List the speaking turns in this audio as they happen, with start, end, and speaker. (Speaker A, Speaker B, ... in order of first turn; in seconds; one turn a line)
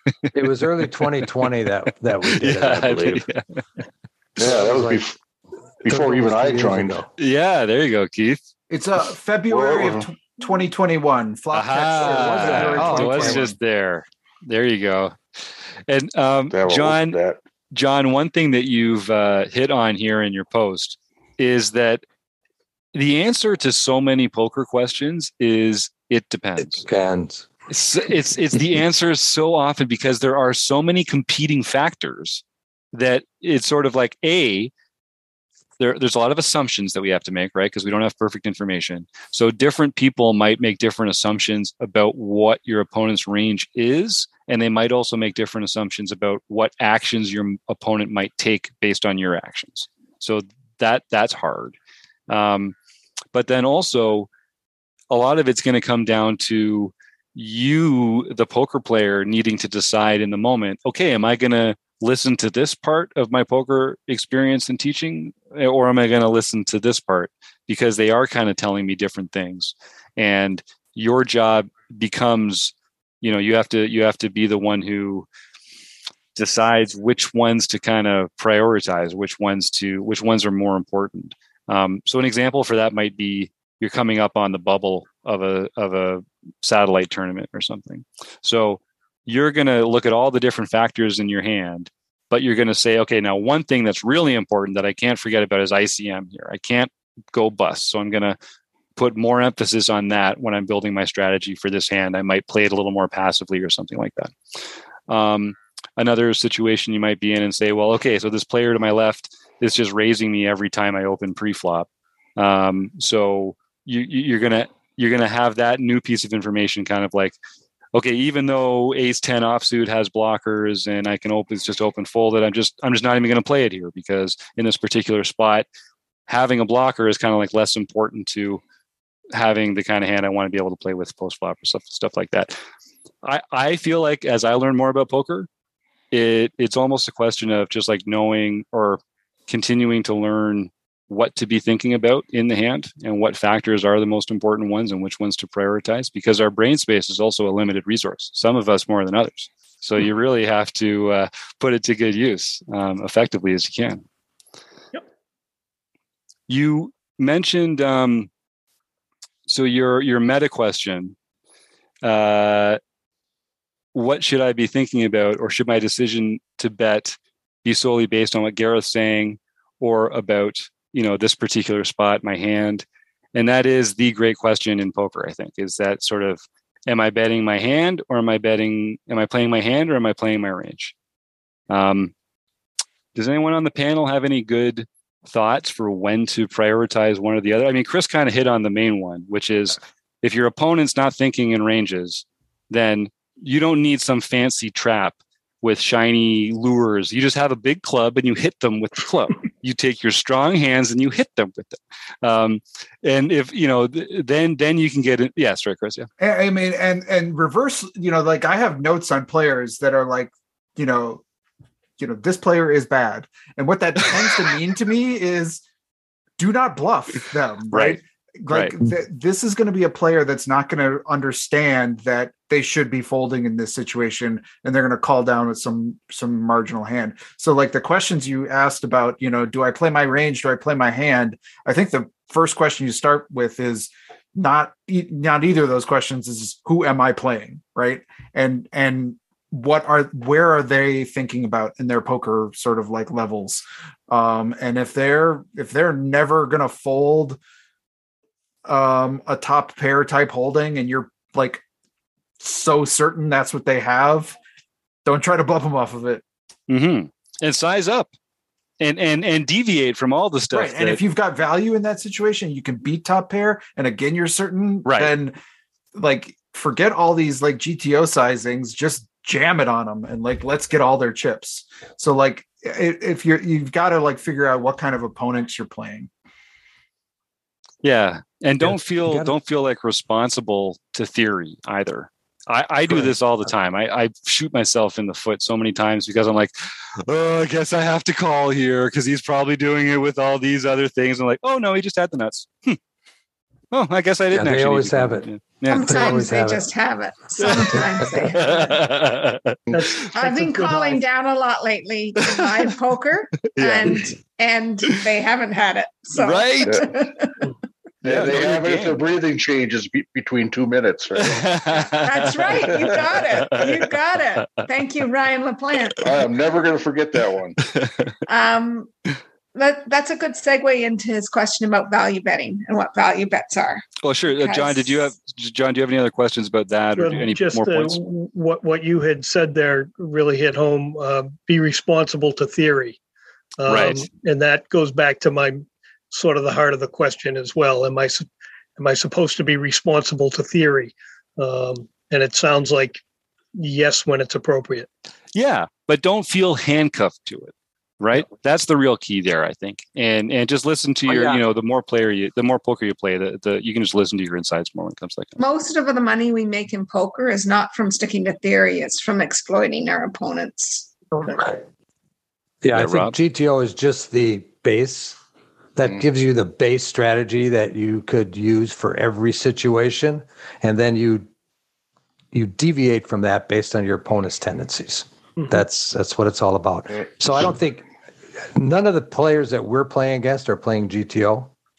Speaker A: 0.3-3.2
Speaker B: 2.3-3.6
Speaker C: 4.4-5.2
Speaker A: 4.4-5.0
Speaker C: 5.8-7.0
Speaker A: 5.9-7.1
Speaker B: 7.2-8.4
Speaker D: 8.7-13.6
Speaker C: 9.5-10.1
Speaker B: 11.5-15.2
Speaker A: 12.0-13.4
Speaker B: 15.9-17.2
Speaker C: 16.5-17.4
Speaker B: 17.7-22.0
Speaker B: 22.9-26.9
Speaker A: 26.8-27.5
Speaker B: 27.7-34.7
Speaker B: 35.8-51.8
Speaker B: 52.3-52.8
Speaker B: 53.3-54.3
Speaker B: 55.1-75.3
Speaker B: 76.3-98.4
Speaker B: 99.0-104.3
Speaker B: 105.1-117.4
Speaker B: 117.9-125.7
Speaker B: 126.3-128.6
Speaker B: 129.3-132.6
Speaker B: 133.2-135.5
Speaker B: 136.1-154.0
Speaker B: 156.5-158.3
Speaker B: 159.5-161.2
Speaker B: 162.0-162.8
Speaker B: 163.9-180.9
Speaker B: 181.7-182.1
Speaker B: 183.2-206.1
Speaker D: 206.2-211.2
Speaker D: 212.0-215.6
Speaker D: 216.4-247.4
Speaker B: 217.7-218.7
Speaker D: 248.7-251.6
Speaker D: 252.4-254.4
Speaker D: 255.1-256.2
Speaker B: 256.7-258.1
Speaker B: 258.8-261.0
Speaker D: 260.5-265.4
Speaker B: 264.9-265.1
Speaker D: 265.9-276.1
Speaker B: 277.8-292.8
Speaker A: 278.6-279.3
Speaker A: 282.9-283.1
Speaker B: 293.7-296.2
Speaker A: 294.3-296.7
Speaker E: 295.7-298.9
Speaker B: 297.4-299.6
Speaker C: 299.7-299.9
Speaker F: 299.7-301.0
Speaker E: 300.1-307.4
Speaker B: 303.5-304.1
Speaker B: 306.2-306.9
Speaker C: 306.7-307.0
Speaker C: 308.0-311.6
Speaker B: 308.1-309.0
Speaker B: 311.2-313.8
Speaker E: 311.9-316.2
Speaker C: 312.7-313.0
Speaker C: 316.0-317.6
Speaker B: 317.8-318.1
Speaker E: 318.3-318.9
Speaker E: 319.6-325.1
Speaker B: 324.0-328.0
Speaker F: 327.0-333.0
Speaker F: 333.6-343.0
Speaker B: 333.7-334.1
Speaker F: 343.6-344.9
Speaker B: 345.4-355.4
Speaker A: 351.1-351.4
Speaker E: 355.4-360.9
Speaker A: 361.2-361.6
Speaker A: 362.6-365.2
Speaker B: 362.7-363.1
Speaker A: 365.8-371.3
Speaker A: 372.3-377.9
Speaker A: 378.5-381.5